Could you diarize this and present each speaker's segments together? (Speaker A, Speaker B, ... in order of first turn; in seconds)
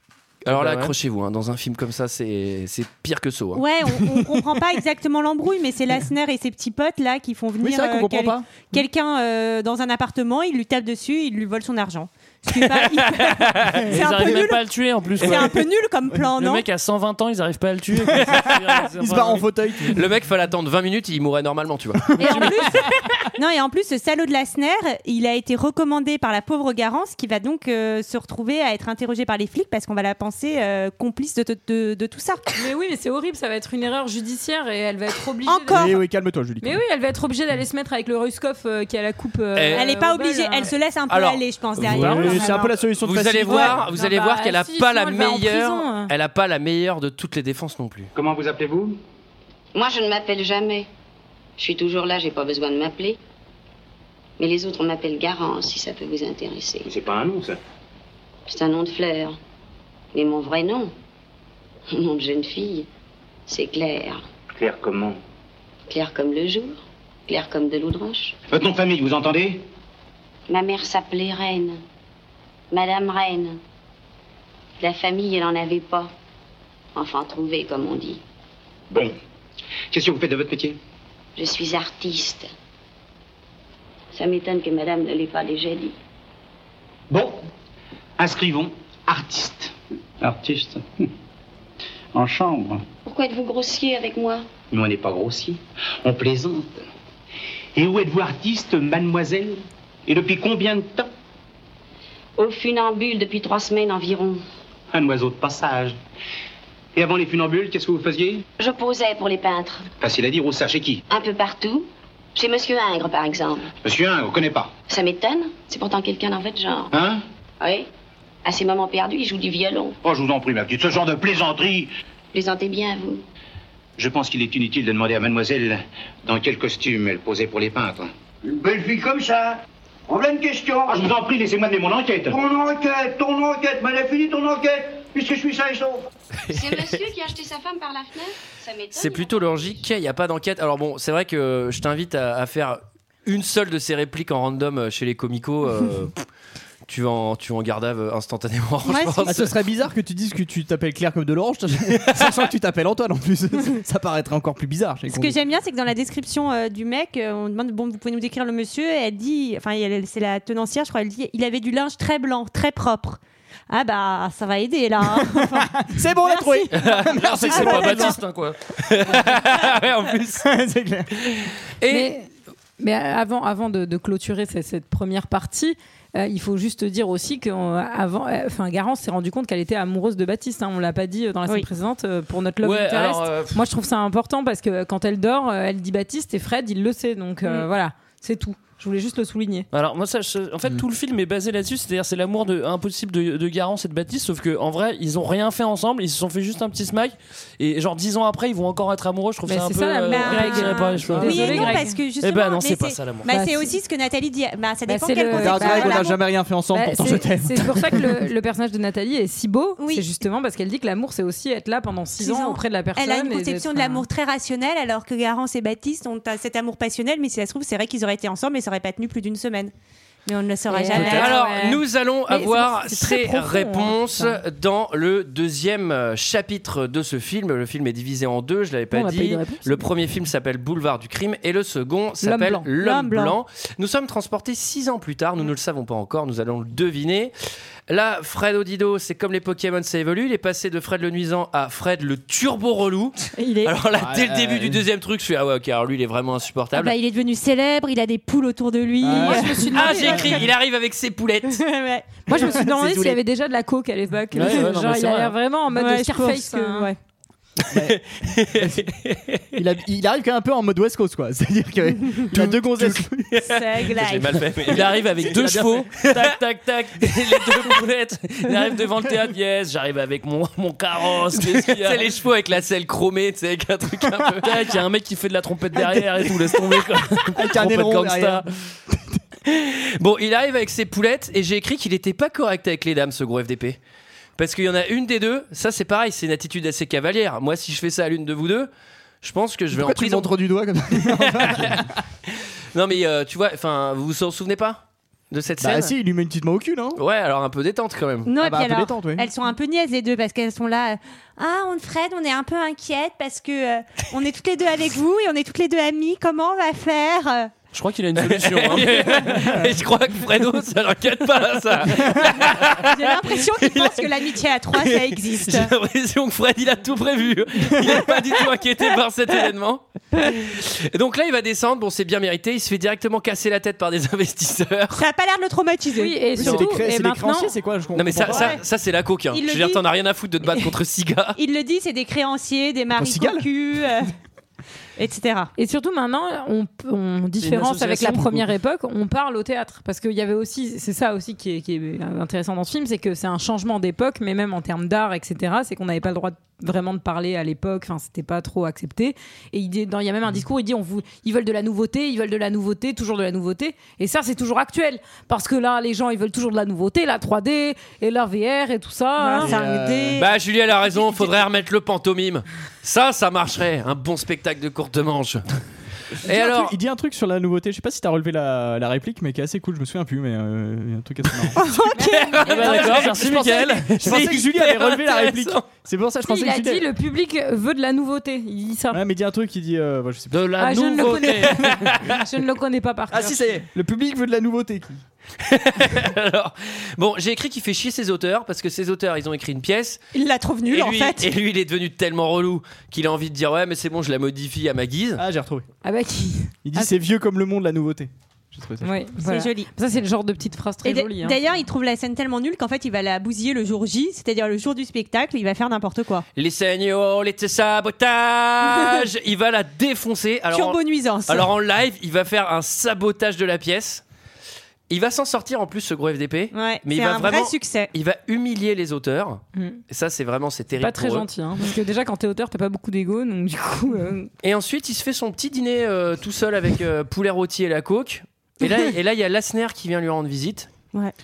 Speaker A: 0.4-3.6, 12.6-13.8, 19.9-22.5, 39.5-39.9, 41.1-41.4, 43.0-48.1, 136.5-137.0, 138.9-146.1, 146.9-149.5, 166.8-167.8, 168.8-170.4, 171.2-172.1, 220.9-237.3, 237.9-246.9, 249.7-251.6, 257.8-259.4, 262.8-265.1, 266.0-266.3, 271.3-274.6, 279.4-283.8, 284.4-288.7, 289.2-290.3, 291.0-295.9, 296.9-298.3, 308.2-314.1, 314.7-325.0, 327.9-331.4, 360.1-365.4, 366.2-366.8, 372.1-375.6, 385.4-390.0, 390.7-395.2, 406.3-414.0, 414.9-421.3, 424.4-430.7
Speaker B: 0.5-0.9, 13.9-15.7, 16.3-19.5, 167.0-168.6, 182.6-183.6, 189.7-203.3, 254.3-255.3, 264.6-272.1, 274.4-278.5, 307.7-309.6, 337.4-338.5, 372.4-374.2, 380.3-381.9
Speaker C: 3.5-14.6, 15.2-16.6, 22.2-32.4, 35.5-36.0, 39.7-42.8, 43.5-43.7, 148.8-149.4, 155.1-168.2, 200.1-206.2, 209.8-210.0, 212.2-219.7, 220.2-221.4, 232.7-233.4, 243.3-243.7, 246.7-250.5, 251.5-252.7, 255.7-256.9, 263.4-264.5, 298.2-307.5, 312.4-315.7, 324.9-326.2, 328.2-328.6, 329.3-329.8, 331.4-334.1, 335.0-335.5, 359.2-360.3, 360.8-361.4, 371.6-372.4, 390.1-391.3, 399.2-399.7, 400.8-406.2, 410.5-411.5, 416.5-417.9
Speaker D: 7.6-8.5, 18.9-20.0, 22.2-22.8, 35.7-36.8, 41.8-43.9, 149.2-155.4, 165.1-168.2, 170.4-171.1, 205.3-208.3, 244.0-244.8, 249.0-249.6, 257.7-258.9, 259.5-263.3, 265.2-265.9, 275.8-276.2, 277.3-279.2, 289.7-291.9, 295.6-297.0, 298.4-299.3, 326.4-328.6, 332.9-333.5, 359.4-360.2, 366.2-371.6, 372.7-376.8, 378.9-380.6, 383.1-385.0, 395.2-395.6, 396.6-398.9
Speaker E: 32.6-35.9, 36.6-40.7, 41.9-42.6, 43.8-46.1, 171.9-172.3, 172.8-189.7, 199.5-202.0, 203.3-203.7, 204.9-206.1, 206.7-214.0, 220.7-224.4, 228.9-229.8, 232.2-232.6, 249.1-250.4, 252.3-256.9, 325.9-327.5, 335.6-359.5, 371.9-372.9, 376.2-379.0, 380.6-383.6, 395.8-396.9, 398.8-401.4, 419.5-419.8, 420.8-424.3
Speaker F: 48.1-49.0, 56.8-57.6, 64.6-65.2, 68.5-69.6, 78.9-79.1, 79.9-80.8, 87.1-87.4, 88.2-91.1, 92.1-92.8, 94.7-96.8, 97.7-101.1, 104.9-106.0, 106.9-108.4, 110.0-111.0, 113.8-114.7, 116.9-117.2, 120.0-121.9, 124.0-128.1, 130.9-132.4
Speaker G: 49.7-50.9, 51.6-53.2, 54.4-56.9, 58.5-59.4, 60.1-60.9, 61.9-62.9, 63.5-64.2, 65.9-68.3, 70.5-71.8, 72.7-73.6, 74.8-76.1, 76.9-78.2, 81.3-82.5, 84.1-85.9, 93.0-94.4, 102.4-104.4, 108.6-109.9, 111.1-113.7, 114.9-116.9, 117.6-117.9, 118.4-120.0, 122.3-123.2, 136.5-139.8
Speaker H: 128.4-131.1, 132.3-136.1